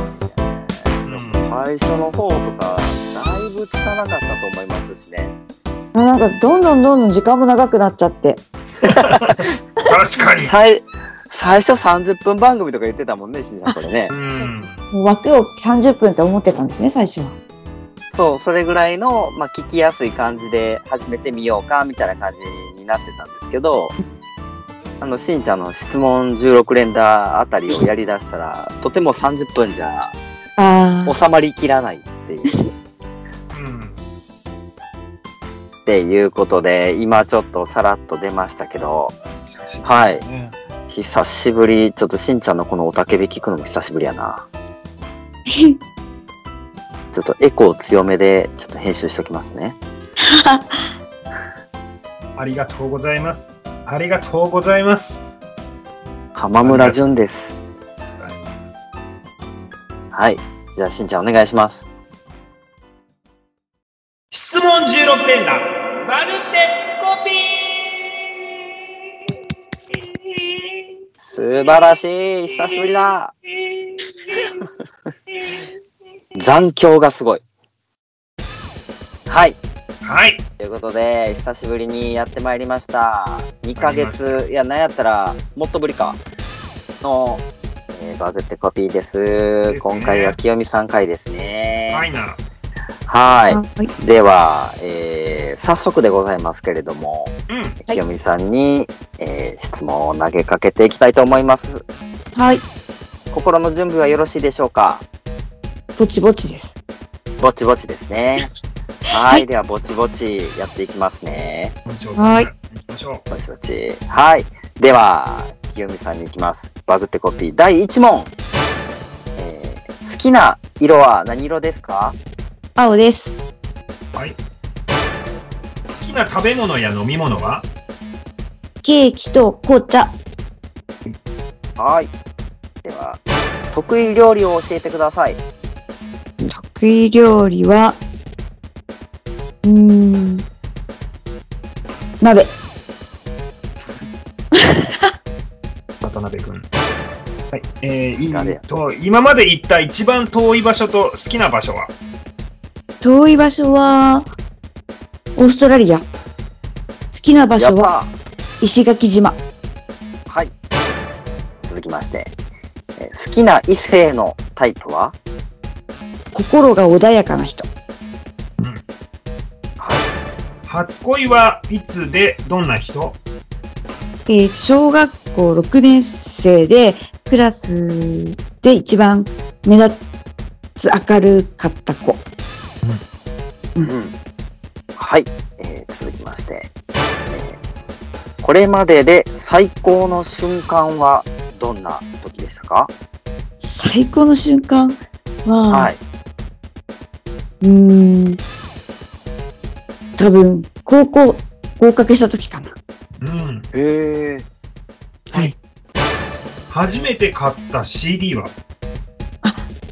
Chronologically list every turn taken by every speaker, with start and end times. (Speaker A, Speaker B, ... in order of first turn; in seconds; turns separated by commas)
Speaker A: 0.2-5.3, Speaker B: 1.1-1.5, Speaker C: 5.9-8.4, Speaker A: 8.8-9.5, Speaker B: 8.8-10.5, Speaker A: 10.4-14.1, Speaker B: 14.1-14.7, Speaker C: 14.4-17.4, Speaker A: 18.1-23.9, Speaker A: 25.0-30.1, Speaker C: 30.6-31.1, Speaker A: 31.1-32.5, Speaker B: 33.5-34.0, Speaker A: 35.9-39.2, Speaker B: 39.5-40.5, Speaker A: 39.8-40.2, Speaker A: 40.9-44.5, Speaker C: 45.5-45.8, Speaker A: 47.1-49.8, Speaker C: 50.2-50.9, Speaker B: 52.4-55.3, Speaker A: 56.4-57.5, Speaker B: 56.6-57.1, Speaker B: 58.2-58.9, Speaker A: 60.1-61.9, Speaker B: 64.3-68.4, Speaker B: 69.9-70.9, Speaker A: 71.2-73.3, Speaker B: 73.5-74.6, Speaker A: 76.3-77.4, Speaker A: 79.3-79.6, Speaker B: 80.0-80.4, Speaker A: 80.6-86.2, Speaker B: 83.8-84.4, Speaker A: 87.0-92.0, Speaker B: 89.7-90.3, Speaker B: 91.9-92.4, Speaker A: 93.1-97.3, Speaker C: 93.5-93.9, Speaker B: 97.5-97.8, Speaker A: 97.9-101.8, Speaker C: 102.3-102.6, Speaker A: 103.3-105.0, Speaker C: 106.0-106.8, Speaker A: 107.4-108.5, Speaker A: 109.1-111.7, Speaker B: 111.8-113.2, Speaker C: 112.2-112.5, Speaker A: 113.3-118.3, Speaker A: 119.4-122.2, Speaker C: 122.8-123.4, Speaker B: 125.9-127.7, Speaker C: 128.8-130.2, Speaker A: 131.8-132.1, Speaker A: 132.8-133.2, Speaker A: 133.7-135.4, Speaker C: 136.4-138.0, Speaker C: 139.6-140.4, Speaker C: 142.2-142.5, Speaker C: 144.5-145.1, Speaker B: 146.0-146.7, Speaker B: 147.5-151.9, Speaker A: 148.3-148.6, Speaker C: 153.0-154.3, Speaker C: 155.3-156.1, Speaker C: 157.1-157.9, Speaker A: 157.6-158.1, Speaker C: 158.6-159.4, Speaker A: 161.7-162.3, Speaker A: 163.0-165.2, Speaker C: 166.3-167.7, Speaker A: 169.8-170.1, Speaker B: 170.7-173.2, Speaker C: 174.3-180.0, Speaker C: 180.8-182.2, Speaker A: 183.8-184.1, Speaker A: 184.9-186.7, Speaker A: 187.3-187.6, Speaker A: 188.4-192.9, Speaker C: 193.6-195.9, Speaker A: 195.7-196.0, Speaker C: 197.6-198.4, Speaker C: 200.2-202.7, Speaker B: 203.2-203.7, Speaker A: 203.7-204.4, Speaker B: 206.7-208.5